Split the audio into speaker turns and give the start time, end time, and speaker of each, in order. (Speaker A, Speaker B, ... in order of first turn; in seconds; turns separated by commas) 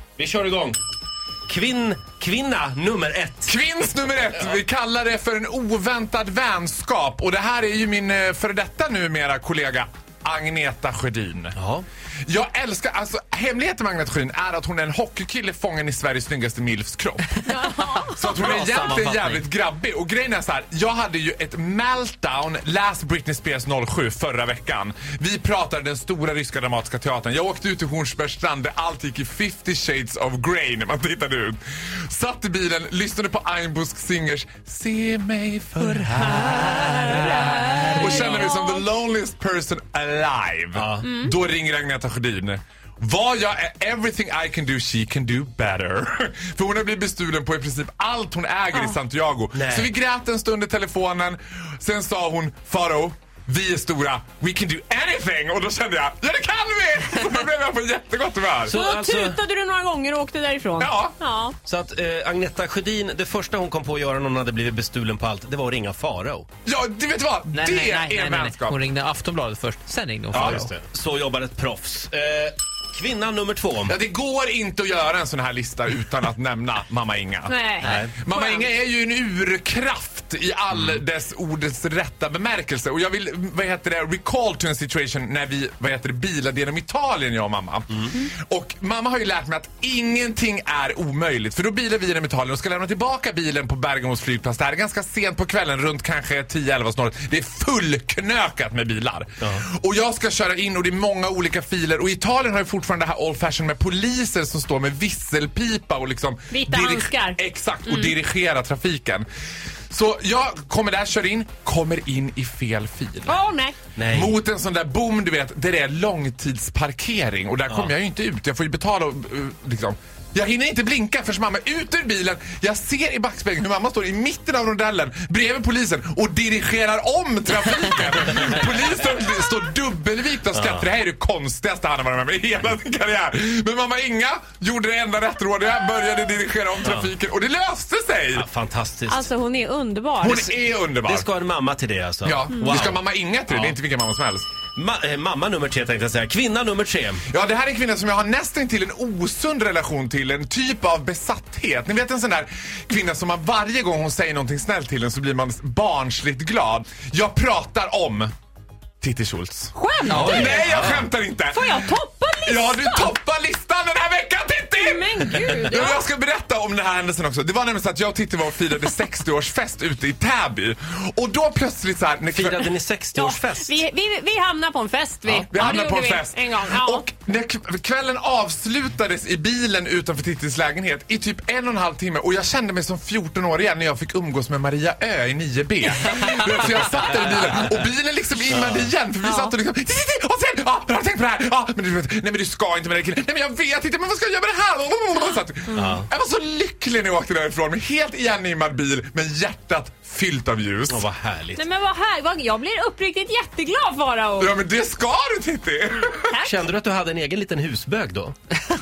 Speaker A: 0.2-0.8, Speaker A: 1.5-3.5, Speaker B: 3.5-11.6, Speaker A: 11.6-11.9, Speaker B: 12.3-17.3, Speaker C: 17.4-19.4, Speaker D: 17.5-18.3, Speaker B: 18.2-58.7, Speaker D: 37.0-38.9, Speaker C: 37.6-38.1, Speaker A: 40.7-41.1, Speaker D: 41.0-41.4, Speaker D: 48.7-49.0, Speaker A: 49.5-49.9, Speaker A: 58.7-59.4, Speaker D: 58.7-61.5, Speaker B: 60.8-61.1, Speaker A: 61.6-66.5, Speaker B: 66.7-68.8, Speaker C: 67.5-70.7, Speaker A: 70.3-74.0, Speaker B: 70.3-70.7, Speaker B: 73.9-109.3, Speaker D: 77.5-78.7, Speaker A: 77.8-78.1, Speaker A: 80.7-81.0, Speaker D: 106.5-108.2, Speaker B: 109.9-113.4, Speaker D: 113.3-113.8, Speaker A: 114.0-114.4, Speaker B: 114.1-138.5, Speaker A: 130.5-130.9, Speaker A: 136.8-137.1, Speaker A: 138.3-139.3, Speaker D: 139.1-140.6, Speaker B: 140.2-141.2, Speaker A: 140.3-143.8, Speaker B: 142.2-144.5, Speaker A: 144.8-147.2, Speaker B: 147.3-158.3, Speaker B: 159.0-161.9, Speaker D: 159.7-160.6, Speaker A: 160.1-161.0, Speaker C: 160.2-160.7, Speaker D: 161.5-163.2, Speaker B: 162.5-165.0, Speaker D: 164.8-166.0, Speaker B: 165.7-172.7, Speaker A: 172.3-173.8, Speaker D: 173.1-177.1, Speaker A: 175.3-175.5, Speaker B: 175.5-201.0, Speaker A: 188.5-188.9, Speaker D: 189.2-189.6, Speaker A: 195.7-196.1, Speaker A: 200.9-201.6, Speaker D: 201.6-204.6, Speaker B: 204.4-206.4, Speaker D: 206.1-206.6, Speaker A: 206.4-208.4